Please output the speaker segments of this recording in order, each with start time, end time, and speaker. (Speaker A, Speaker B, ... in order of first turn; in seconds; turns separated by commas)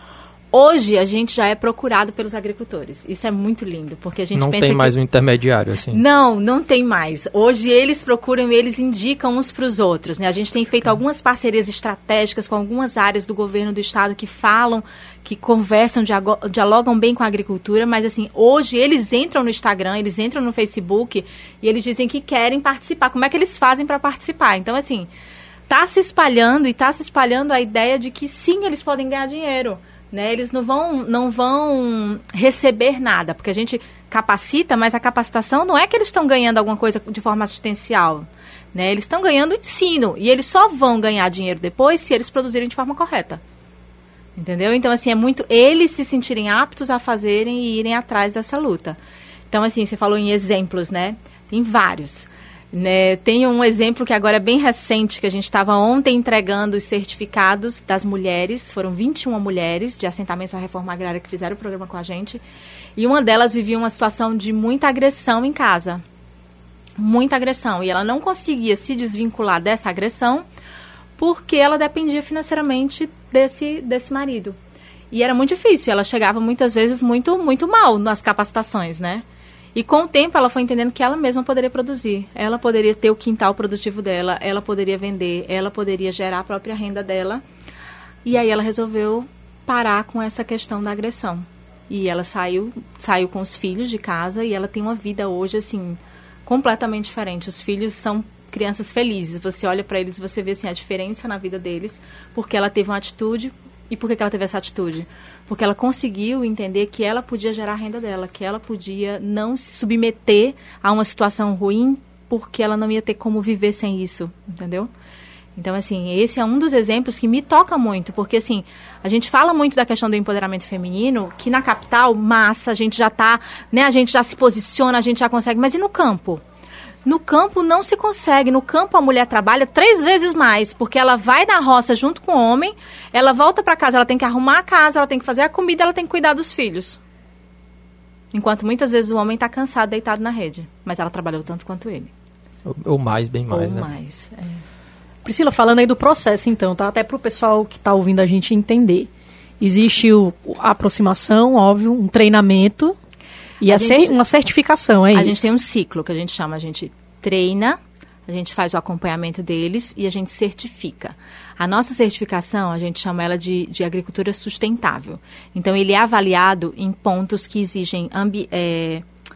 Speaker A: 0.5-4.9, Speaker B: 4.3-6.0, Speaker A: 5.9-25.1, Speaker A: 25.7-43.4, Speaker A: 44.4-49.0, Speaker A: 49.5-62.4, Speaker A: 63.0-66.0, Speaker A: 67.0-70.4, Speaker A: 71.2-74.5, Speaker A: 75.1-79.2, Speaker A: 79.7-87.4, Speaker A: 88.2-114.9, Speaker A: 115.5-126.4, Speaker A: 127.0-137.0, Speaker A: 138.3-142.1, Speaker B: 142.7-143.9, Speaker A: 143.5-144.6, Speaker C: 145.2-149.1, Speaker C: 149.6-152.9, Speaker C: 153.6-155.4, Speaker A: 153.6-154.2, Speaker A: 155.1-169.0